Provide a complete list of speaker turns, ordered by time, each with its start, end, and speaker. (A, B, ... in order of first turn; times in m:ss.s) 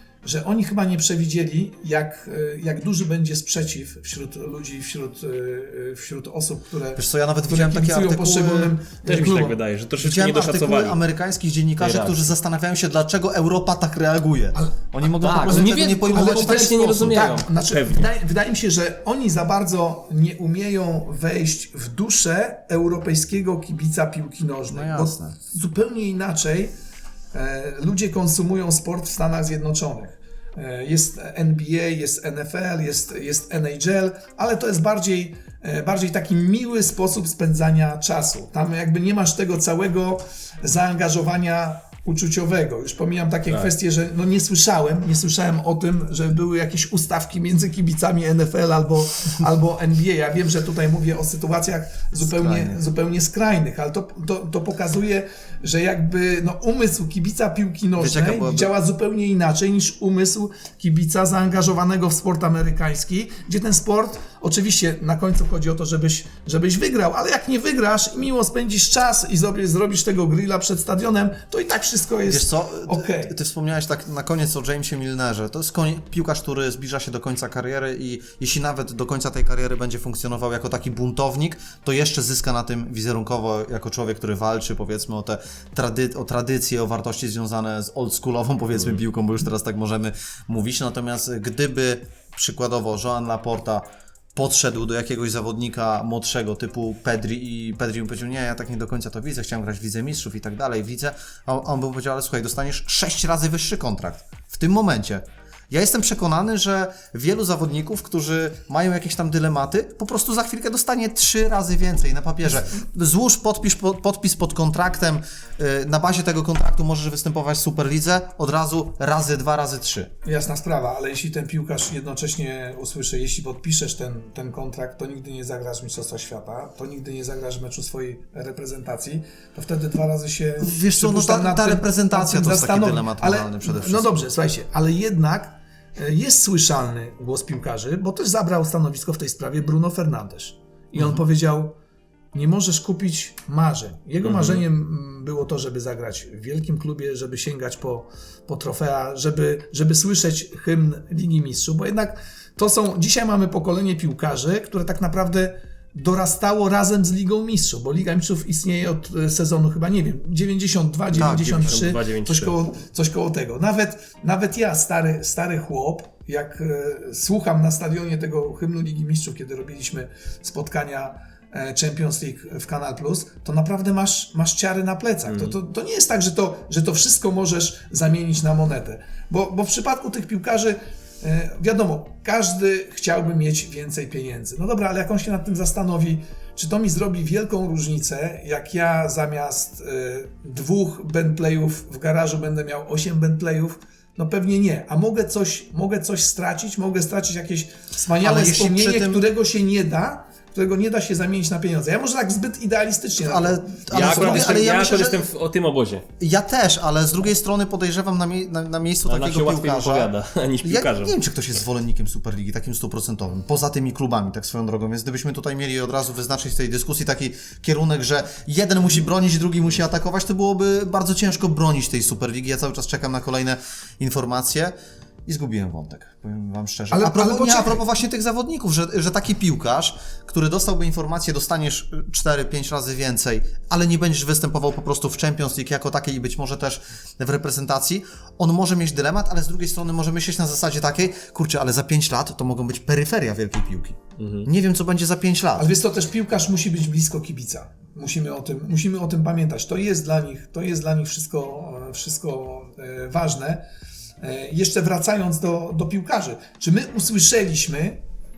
0:00.2-0:09.6 A
0:07.0-0:08.7 B
0:09.0-0:11.0 C
0:10.0-0:17.4 B
0:11.8-0:12.3 C
0:14.6-0:26.7 A
0:15.2-0:18.1 C
0:24.7-0:25.4 B
0:27.3-1:13.4 A
0:52.2-0:52.8 B
0:58.0-0:58.7 B
1:12.3-2:00.1 B
2:00.2-2:21.8 A
2:10.6-2:14.1 B
2:22.3-3:24.7 A
2:24.2-2:24.6 C
2:41.2-2:41.7 B
2:41.2-2:42.6 C
2:55.3-2:55.5 C
3:18.2-3:19.2 B
3:23.2-3:25.3 B
3:23.9-3:26.1 C
3:26.2-3:30.1 B
3:29.1-3:31.2 C
3:30.6-3:44.7 B
3:45.3-4:05.7 B
3:46.9-3:47.8 A
4:04.2-4:04.5 C
4:05.6-4:13.6 A
4:14.2-4:18.0 A